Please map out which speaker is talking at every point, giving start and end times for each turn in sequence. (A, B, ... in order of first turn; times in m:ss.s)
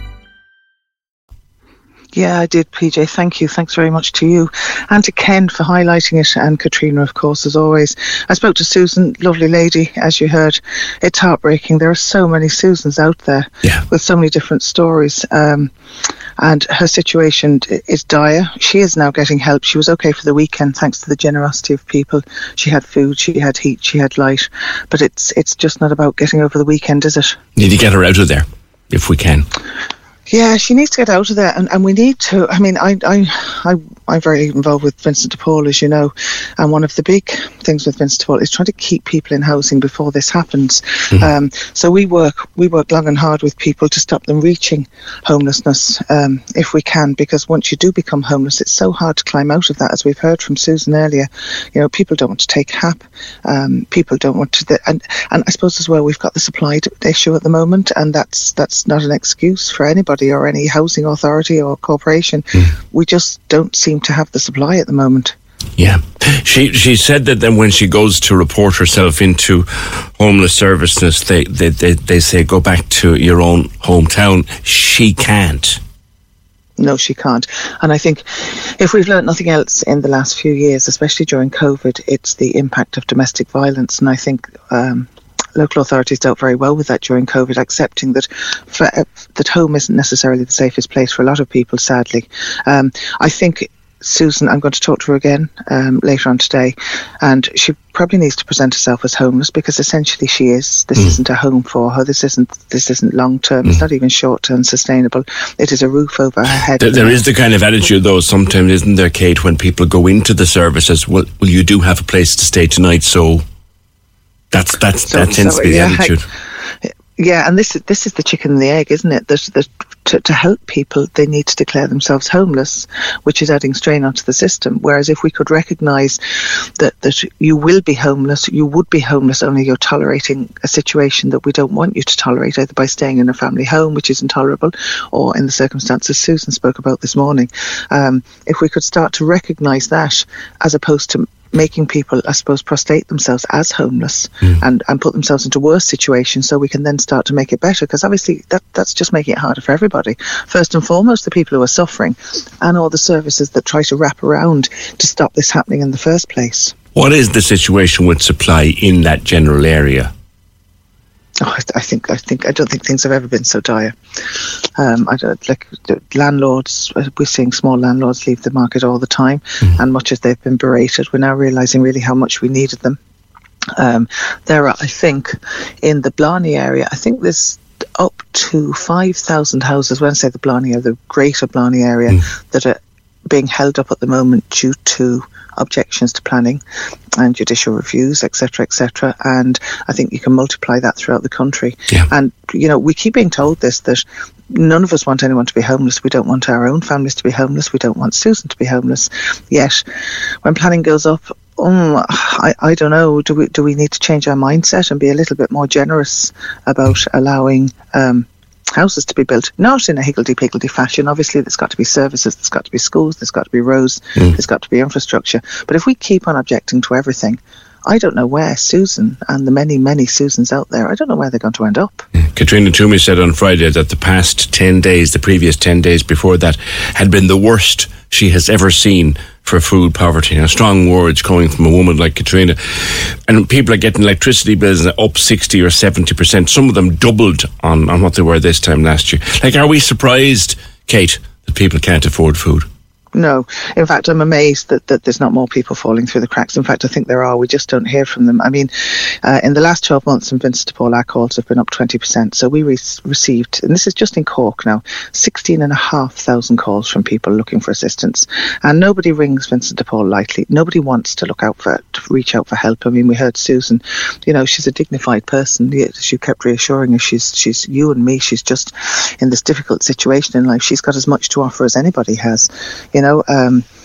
0:02.1-0:15.7 A
0:16.4-0:27.4 A
0:27.6-0:29.5 B
0:30.3-1:05.4 A
1:05.8-1:15.8 B
1:16.8-1:47.2 A
1:46.8-1:53.4 B
1:54.5-1:56.3 B
1:55.1-1:56.2 A
1:56.8-2:36.8 A
2:37.0-2:40.1 B
2:41.4-2:53.0 A
2:53.8-3:06.6 A
3:07.2-3:19.8 A
3:20.4-3:42.1 A
3:42.2-4:02.7 B
4:03.1-4:33.7 A